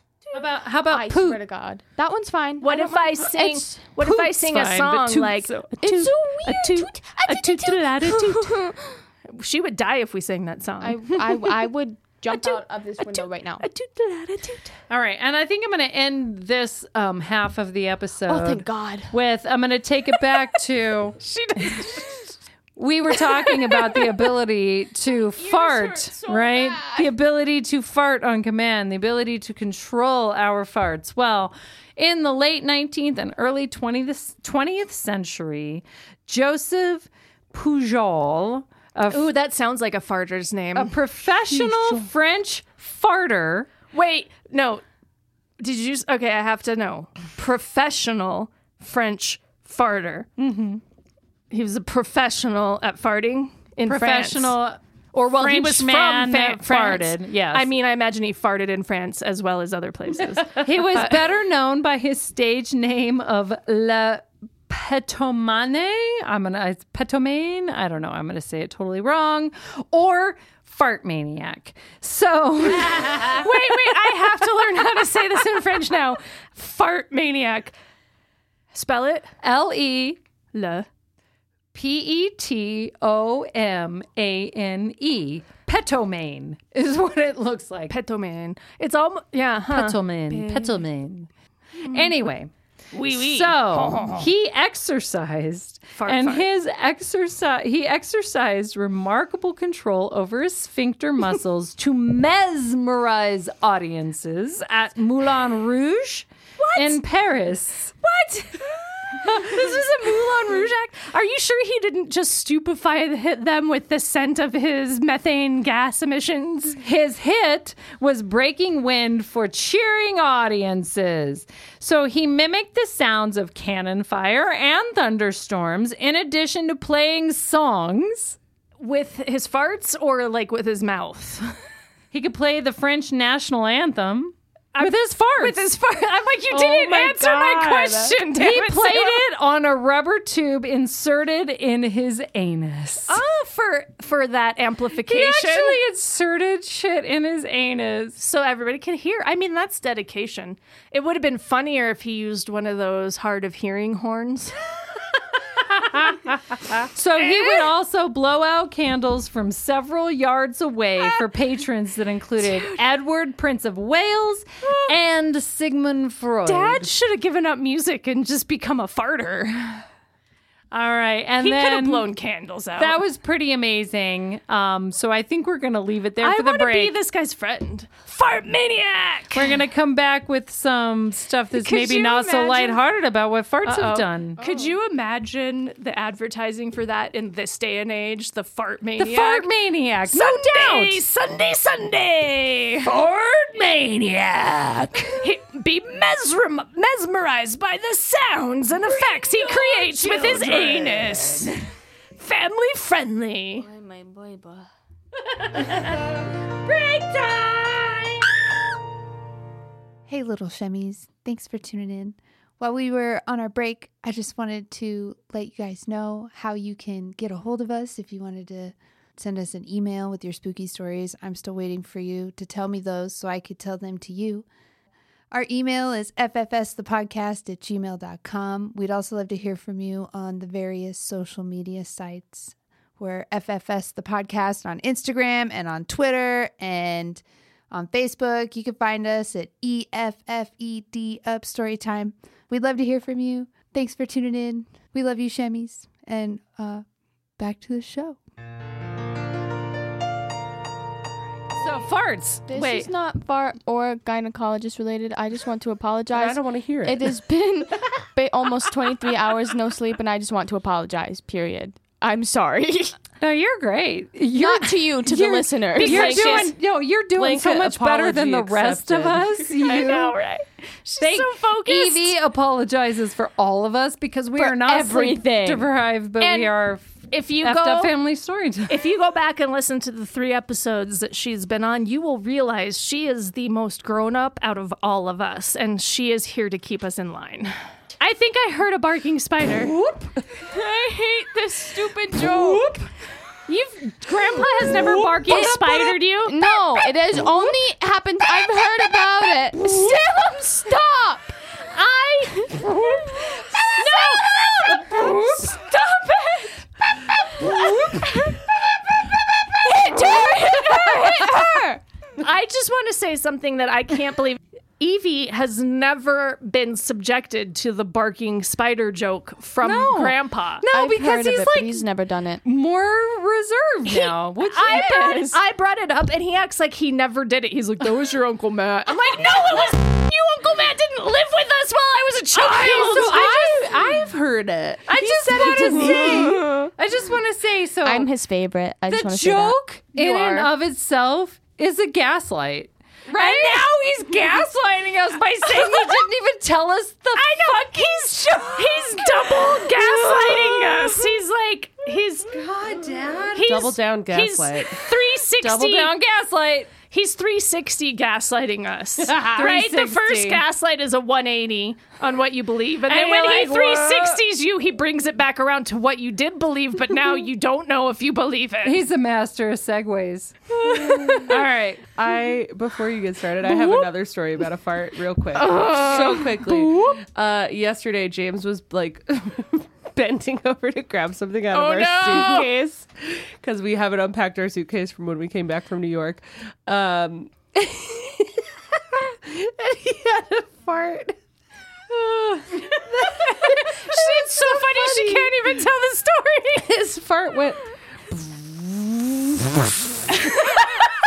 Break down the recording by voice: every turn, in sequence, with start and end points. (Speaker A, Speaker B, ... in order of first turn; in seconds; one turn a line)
Speaker A: 0.3-1.4
Speaker B: 0.9-3.8
Speaker C: 2.6-8.7
Speaker A: 4.0-5.7
Speaker B: 5.8-9.0
Speaker C: 9.3-11.0
Speaker B: 10.8-13.7
Speaker C: 12.3-14.7
Speaker A: 14.9-22.0
Speaker B: 18.3-19.1
Speaker C: 21.2-22.3
Speaker A: 22.8-39.3
Speaker C: 23.1-24.1
Speaker B: 25.4-27.1
Speaker C: 39.1-41.0
Speaker A: 40.7-43.7
Speaker C: 41.5-42.0
Speaker C: 43.9-44.8
Speaker C: 45.6-50.3
Speaker A: 50.4-50.8
Speaker C: 51.5-54.5
Speaker A: 53.9-57.7
Speaker C: 55.1-61.2
Speaker A: 60.5-73.5
Speaker C: 72.9-77.7
Speaker C: 78.7-79.3
Speaker A: 79.4-80.2
Speaker C: 80.5-80.9
Speaker A: 81.7-87.9
Speaker C: 87.9-90.8
Speaker A: 89.7-91.3
Speaker C: 91.8-92.1
Speaker A: 91.9-92.5
Speaker C: 92.9-94.3
Speaker A: 93.1-107.9
Speaker C: 95.9-96.5
Speaker C: 106.6-107.0
Speaker C: 108.0-116.8
Speaker A: 116.8-128.4
Speaker C: 128.8-131.5
Speaker A: 132.1-135.6
Speaker C: 134.7-139.2
Speaker A: 136.5-136.8
Speaker D: 136.6-138.1
Speaker A: 138.3-143.2
Speaker C: 143.1-145.8
Speaker A: 145.0-148.2
Speaker C: 148.2-154.6
Speaker A: 155.7-166.9
Speaker C: 157.2-157.7
Speaker C: 162.4-162.8
Speaker C: 164.6-164.9
Speaker C: 166.4-169.8
Speaker A: 170.7-172.1
Speaker C: 171.4-173.0
Speaker A: 172.8-176.9
Speaker C: 176.2-179.6
Speaker A: 179.3-184.4
Speaker C: 181.5-182.8
Speaker C: 183.6-189.5
Speaker B: 184.4-184.8
Speaker A: 189.0-191.0
Speaker C: 190.1-192.9
Speaker A: 192.8-195.2
Speaker C: 195.2-201.6
Speaker A: 199.2-201.4
Speaker C: 202.2-203.7
Speaker B: 203.6-204.7
Speaker C: 206.7-207.5
Speaker A: 206.8-207.7
Speaker E: 210.1-224.4
Speaker E: 225.3-246.8
Speaker E: 247.4-248.2
Speaker A: 251.6-252.5
Speaker B: 252.5-262.9
Speaker C: 252.5-252.9
Speaker D: 256.1-257.2
Speaker A: 263.2-270.2
Speaker B: 264.3-266.5
Speaker C: 265.8-266.5
Speaker D: 267.1-269.9
Speaker C: 269.6-272.1
Speaker A: 271.0-278.8
Speaker B: 274.4-275.7
Speaker C: 276.2-276.5
Speaker C: 277.1-277.9
Speaker C: 278.7-289.7
Speaker A: 289.7-290.1
Speaker B: 290.4-292.8
Speaker C: 292.1-292.8
Speaker C: 293.5-296.5
Speaker A: 295.2-295.9
Speaker B: 296.2-301.3
Speaker C: 299.6-300.3
Speaker C: 301.7-306.5
Speaker B: 304.7-305.2
Speaker C: 307.3-308.4
Speaker B: 307.4-308.4
Speaker B: 309.6-311.8
Speaker C: 309.6-311.6
Speaker C: 312.2-320.6
Speaker A: 319.6-321.9
Speaker B: 320.7-322.4
Speaker A: 322.4-325.3
Speaker C: 323.9-333.9
Speaker B: 324.7-325.1
Speaker A: 332.4-334.1
Speaker D: 332.6-336.4
Speaker A: 334.9-338.1
Speaker C: 335.0-336.3
Speaker B: 337.8-339.6
Speaker A: 338.9-350.9
Speaker C: 340.0-340.5
Speaker C: 343.1-343.7
Speaker C: 345.4-346.0
Speaker C: 347.1-352.4
Speaker A: 352.3-353.7
Speaker C: 353.3-355.9
Speaker D: 353.4-354.8
Speaker A: 355.4-356.7
Speaker C: 356.9-368.8
Speaker A: 359.0-360.4
Speaker A: 362.9-364.2
Speaker A: 368.6-371.8
Speaker C: 370.8-371.2
Speaker D: 371.1-371.4
Speaker D: 371.9-388.4
Speaker B: 375.5-376.3
Speaker B: 381.5-382.5
Speaker C: 382.1-382.4
Speaker D: 388.9-391.1
Speaker D: 391.9-393.8
Speaker C: 393.1-396.8
Speaker D: 394.7-395.3
Speaker D: 396.6-398.1
Speaker C: 400.1-400.9